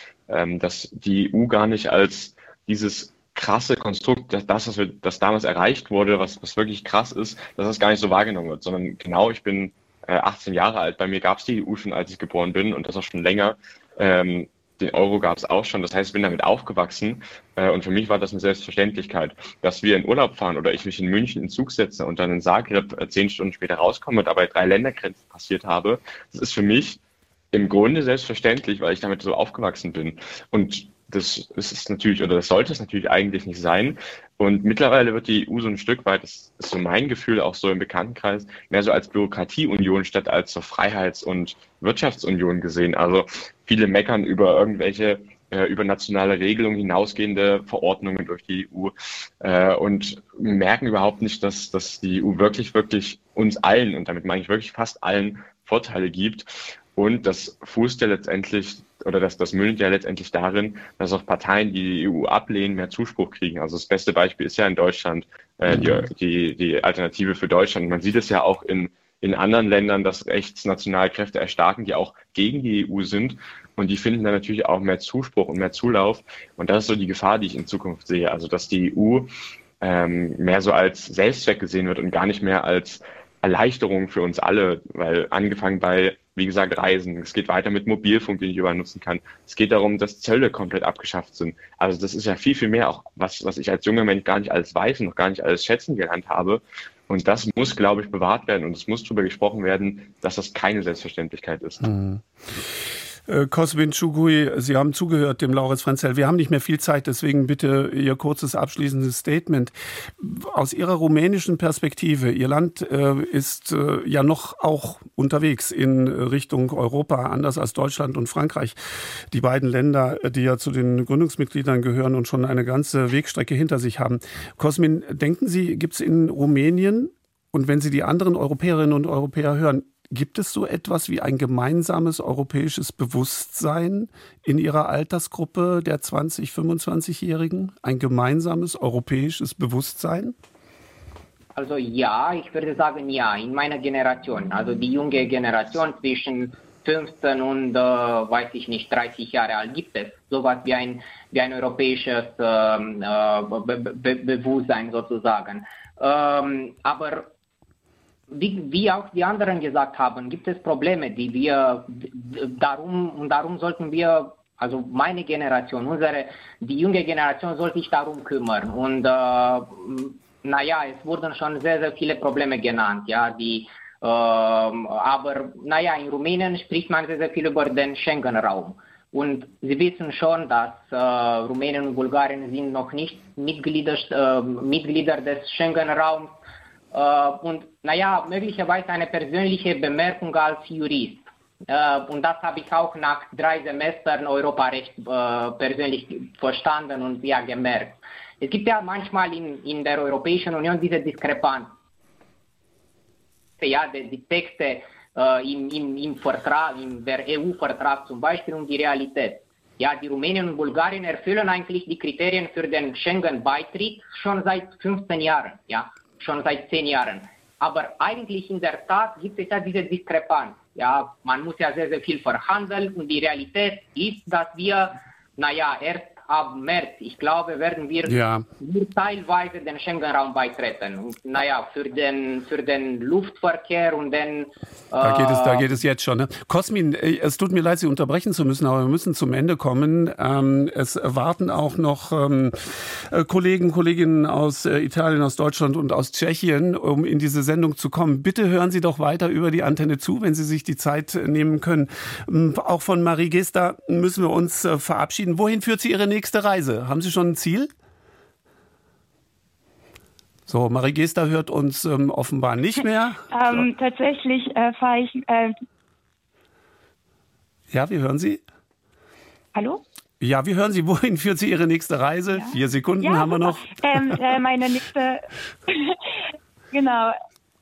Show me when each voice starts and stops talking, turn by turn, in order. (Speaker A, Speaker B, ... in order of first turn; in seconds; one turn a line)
Speaker A: 0.3-27.0
Speaker A: 27.5-79.3
Speaker B: 65.7-66.0
Speaker A: 79.8-101.8
Speaker B: 101.8-102.7
Speaker B: 103.3-140.3
Speaker C: 141.5-157.3
Speaker C: 158.3-186.4
Speaker C: 186.9-201.7
Speaker C: 203.6-235.6
Speaker B: 228.0-228.4
Speaker B: 235.0-257.7
Speaker B: 260.5-263.7
Speaker D: 263.3-265.5
Speaker B: 267.7-268.4
Speaker D: 269.5-269.8
Speaker B: 270.2-274.2
Speaker D: 272.3-276.0
Speaker D: 276.7-277.1